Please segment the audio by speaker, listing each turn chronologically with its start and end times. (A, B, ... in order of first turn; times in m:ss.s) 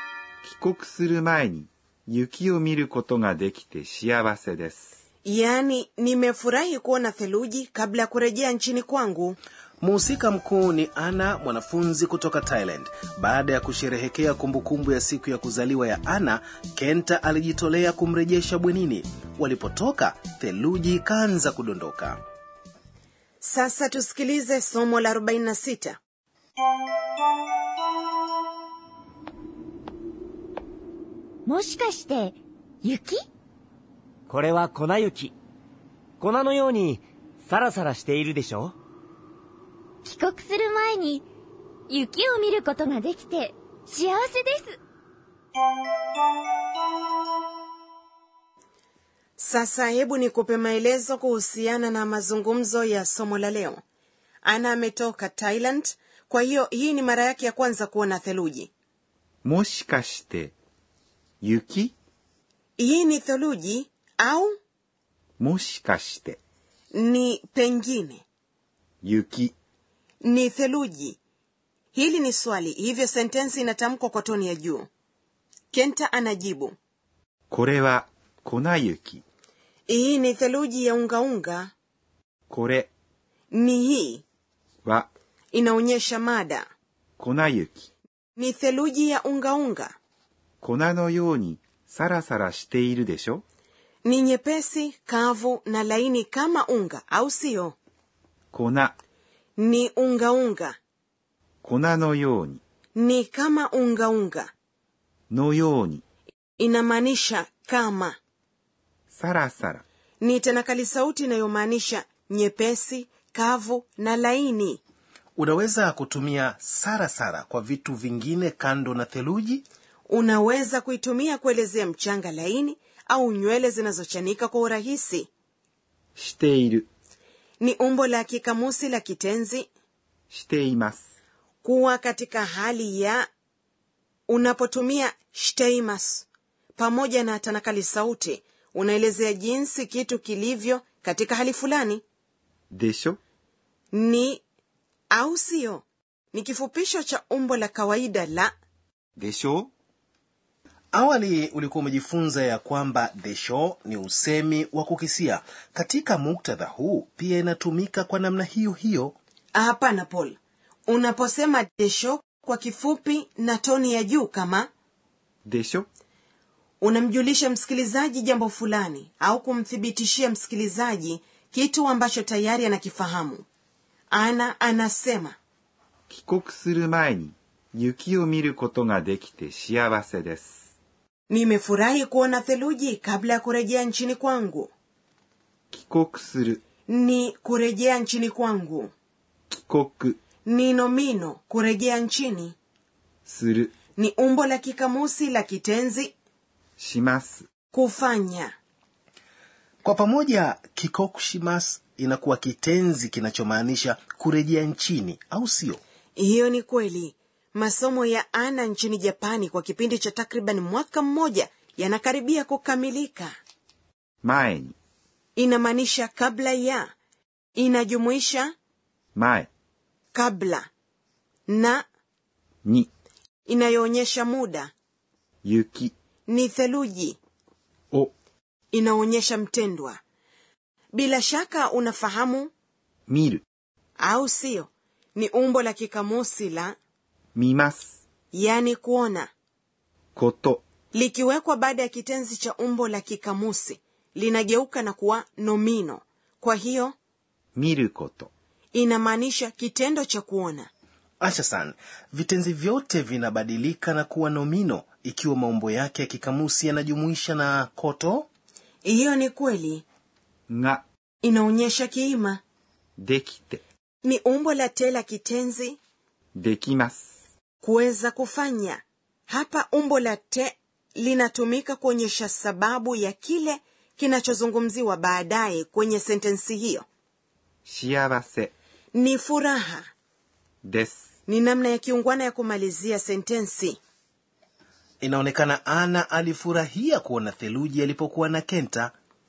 0:00.4-0:04.9 A
0:05.2-0:09.4 B
0:09.8-0:22.2 C
0:23.4-0:26.0 B
0:31.4-0:33.2 D
0:34.3-0:35.3 E
0:36.2-0:38.8 E
0:40.0-0:41.2 D
0:41.9-0:44.8 D
0:49.4-0:53.8 B
0:54.4-0:58.7 B
0:59.4-1:00.5 A
1:01.4-1:01.9 A
1:02.8-1:04.5 B
1:05.4-1:06.4 A
1:06.9-1:08.2 B
1:09.0-1:09.5 A
1:10.2-1:11.2 B
1:11.9-1:14.9 B
1:15.7-1:16.7 B
1:17.5-1:19.2 A
1:19.9-1:21.7 B
1:22.5-1:22.9 A
1:23.5-1:24.2 B
1:24.8-1:25.1 A
1:25.5-1:26.7 B
1:27.2-1:27.9 A
1:28.4-1:29.9 B
1:30.6-1:33.4 A
1:34.0-1:37.8 B
1:38.5-1:38.9 A
1:39.6-1:40.8 B
1:41.6-1:42.6 A
1:43.0-1:44.5 B
1:45.3-1:46.0 A
1:46.6-1:48.2 B
1:49.1-1:49.8 A
1:50.2-1:54.8 B
1:55.4-1:59.6 C
2:00.1-2:05.3 B
2:06.2-2:06.9 A
2:07.6-2:09.7 B
2:10.3-2:11.0 A
2:11.6-2:13.2 B
2:14.3-2:22.0 B
2:22.7-2:23.2 A
2:23.9-2:24.4 B
2:25.1-2:28.5 B
2:29.2-2:29.7 A
2:30.9-2:39.1 C
2:39.5-2:44.7 B
2:45.4-2:45.8 A
2:46.8-2:53.4 B
2:54.1-2:55.3 B
2:56.1-3:00.6 A
3:01.3-3:04.7 B
3:05.7-3:06.6 A
3:06.9-3:08.9 B
3:09.5-3:10.2 A
3:10.4-3:12.5 B
3:13.2-3:13.7 A
3:14.0-3:16.1 B
3:16.8-3:17.4 A
3:17.7-3:18.5 B
3:19.8-3:25.8 C
3:26.2-3:33.3 B
3:34.2-3:34.7 A
3:35.4-3:36.9 B
3:37.6-3:38.5 B
3:39.1-3:39.5 A
3:40.1-3:40.7 B
3:41.5-3:41.8 B
3:42.6-3:42.9 A
3:43.5-3:44.7 B
3:45.4-3:45.9 A
3:46.3-3:47.2 B
3:48.7-3:50.0 B
3:50.9-3:52.5 B
3:53.1-3:53.4 A
3:54.0-3:56.8 B
3:57.3-3:58.0 A
3:58.3-3:59.3 B
4:00.1-4:00.6 A
4:00.9-4:06.9 B
4:07.5-4:08.3 A
4:08.7-4:10.7 B
4:11.2-4:18.3 C
4:18.8-4:19.8 B
4:20.5-4:20.8 A
4:21.2-4:22.4 B
4:23.0-4:23.6 A
4:24.0-4:25.8 B
4:26.3-4:27.1 A
4:27.6-4:36.8 B
4:37.6-4:38.5 A
4:38.9-4:39.8 B
4:40.6-4:41.0 A
4:41.3-4:43.8 B
4:45.0-4:48.9 C